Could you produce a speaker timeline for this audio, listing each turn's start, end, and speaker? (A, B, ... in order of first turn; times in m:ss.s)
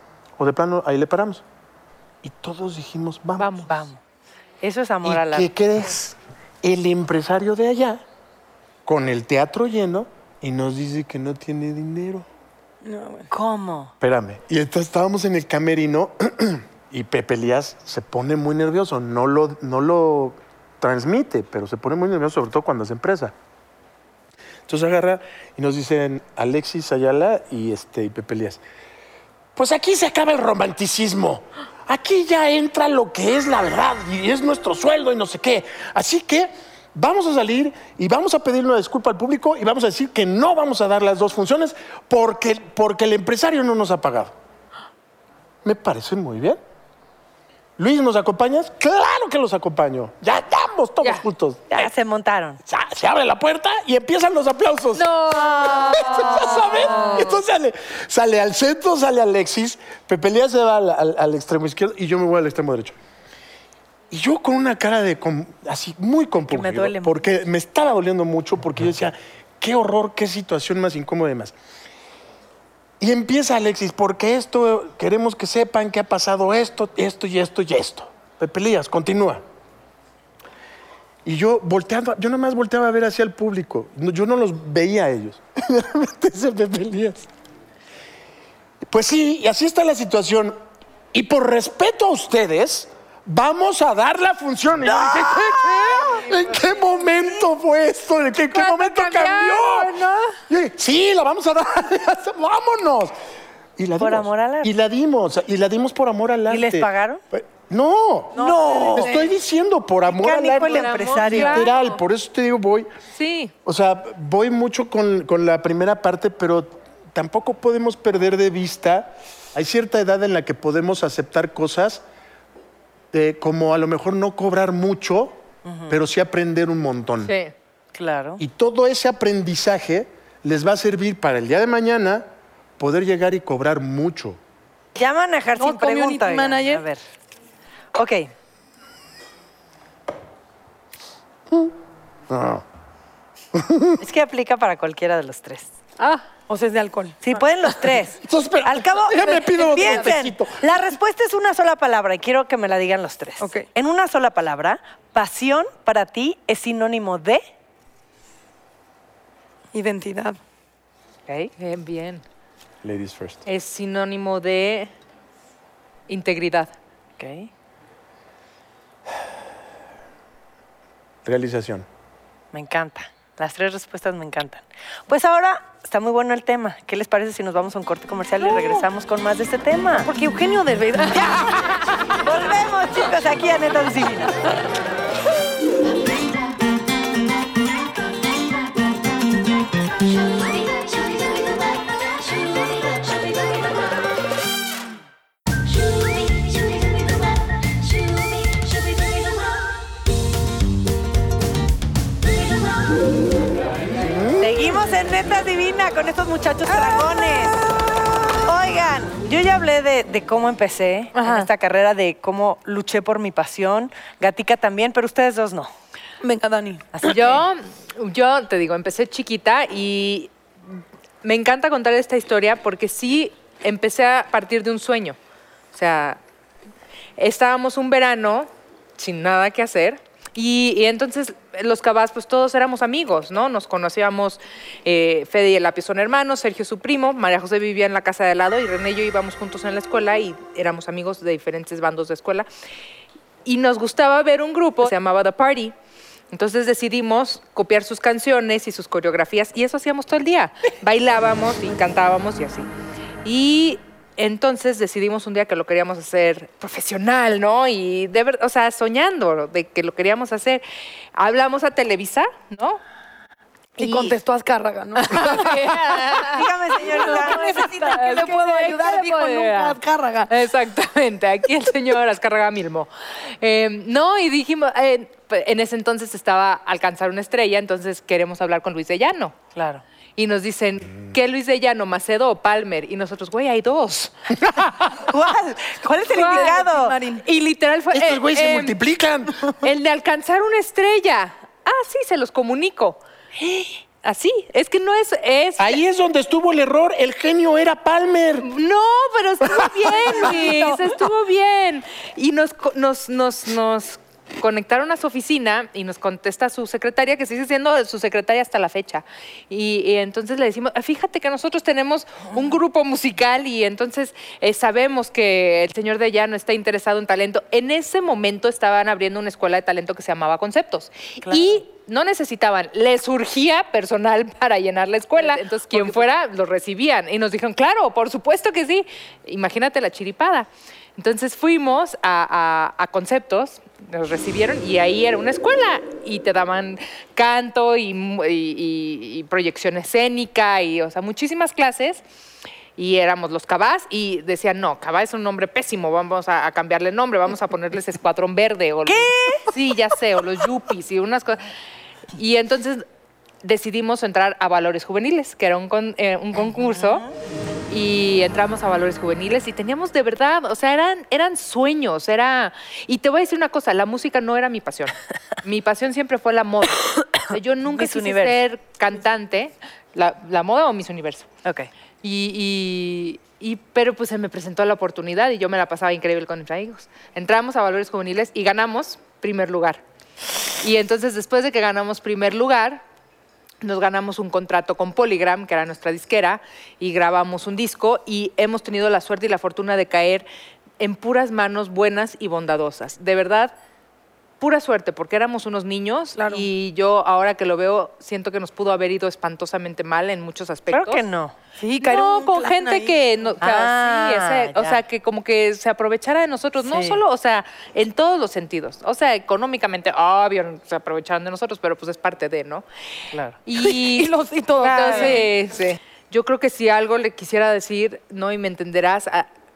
0:00.4-0:01.4 A
0:02.2-0:03.6 A
0:03.4-0:03.7 B
0:03.6-0:04.0 C
0:04.6-0:05.5 C
0:05.0-0:08.0 A
0:08.8-0:12.3 A
0:12.8-0:13.3 D
0:13.3-0:13.9 C
0:14.0-0:23.3 A
0:24.7-0:28.6 A
0:29.6-0:44.4 A
0:45.6-0:46.6 A
0:47.8-0:51.9 A
0:51.7-0:52.6 C
0:52.7-1:03.0 A
0:55.0-0:57.4 B
0:55.7-0:57.1 C
1:04.1-1:11.6 A
1:06.5-1:07.2 C
1:13.0-1:19.4 A
1:21.2-1:27.3 A
1:28.9-1:30.6 A
1:31.1-1:43.2 A
1:34.9-1:36.2 C
1:38.5-1:40.4 B
1:43.8-1:52.9 A
1:44.0-1:44.7 C
1:46.5-1:47.2 C
1:48.4-1:49.3 C
1:48.4-1:49.2 D
1:50.0-1:51.7 C
1:50.6-1:52.0 B
1:53.1-1:53.5 B
1:53.6-2:02.0 A
2:03.1-2:07.3 A
2:05.6-2:06.0 C
2:07.2-2:07.5 B
2:07.9-2:08.4 C
2:08.4-2:12.3 A
2:12.8-2:14.4 A
2:15.0-2:17.0 C
2:15.6-2:16.8 D
2:18.0-2:18.3 C
2:22.3-2:22.6 A
2:23.5-2:24.0 A
2:24.0-2:25.7 C
2:26.0-2:26.2 B
2:26.5-2:27.4 D
2:27.2-2:37.4 C
2:28.2-2:30.6 A
2:33.4-2:33.6 D
2:39.7-2:40.4 D
2:41.5-2:42.2 B
2:42.8-2:43.4 A
2:43.5-2:44.9 B
2:46.1-2:46.7 B
2:47.2-2:47.5 C
2:51.2-2:51.9 A
2:52.5-3:00.1 C
2:58.4-2:58.8 D
3:00.0-3:01.7 D
3:01.1-3:04.4 C
3:24.0-3:24.6 A
3:24.4-3:27.6 C
3:28.4-3:35.7 C
3:36.2-3:37.1 D
3:37.0-3:45.2 B
3:45.7-3:46.2 B
3:47.2-4:02.5 B
4:03.4-4:05.7 B
4:06.3-4:12.7 B
4:13.2-4:20.6 B
4:21.2-4:22.8 B
4:23.8-4:24.2 B
4:23.8-4:30.3 D
4:25.0-4:32.9 B
4:26.1-4:28.0 C
4:33.4-4:39.4 B
4:39.6-4:39.8 C
4:40.2-4:44.6 B
4:45.0-4:47.0 C
4:46.1-4:46.6 B
4:46.1-4:47.2 D
4:47.2-4:48.8 B
4:47.9-4:49.4 A
4:49.4-4:53.0 B
4:54.0-4:55.8 B
4:55.6-4:58.5 A
4:58.4-5:42.0 B
4:59.4-5:00.1 A
5:00.4-5:00.8 D
5:21.2-5:21.6 C
5:25.7-5:26.0 C
5:42.8-5:51.4 B
5:48.9-5:49.5 C
5:52.2-5:52.8 B
5:53.4-5:57.0 B
5:56.6-5:57.1 C
5:57.7-6:11.3 B
6:07.7-6:08.4 C
6:12.0-6:19.8 B
6:20.6-6:22.8 B
6:23.6-6:30.3 B
6:30.8-6:33.5 B
6:34.4-6:41.0 B
6:36.2-6:36.5 D
6:40.7-6:41.3 C
6:41.6-6:43.0 D
6:41.8-6:52.6 B
6:43.4-6:44.8 C
6:46.6-6:47.0 C
6:53.5-6:59.3 B
6:53.6-6:55.3 D
6:54.6-6:55.2 C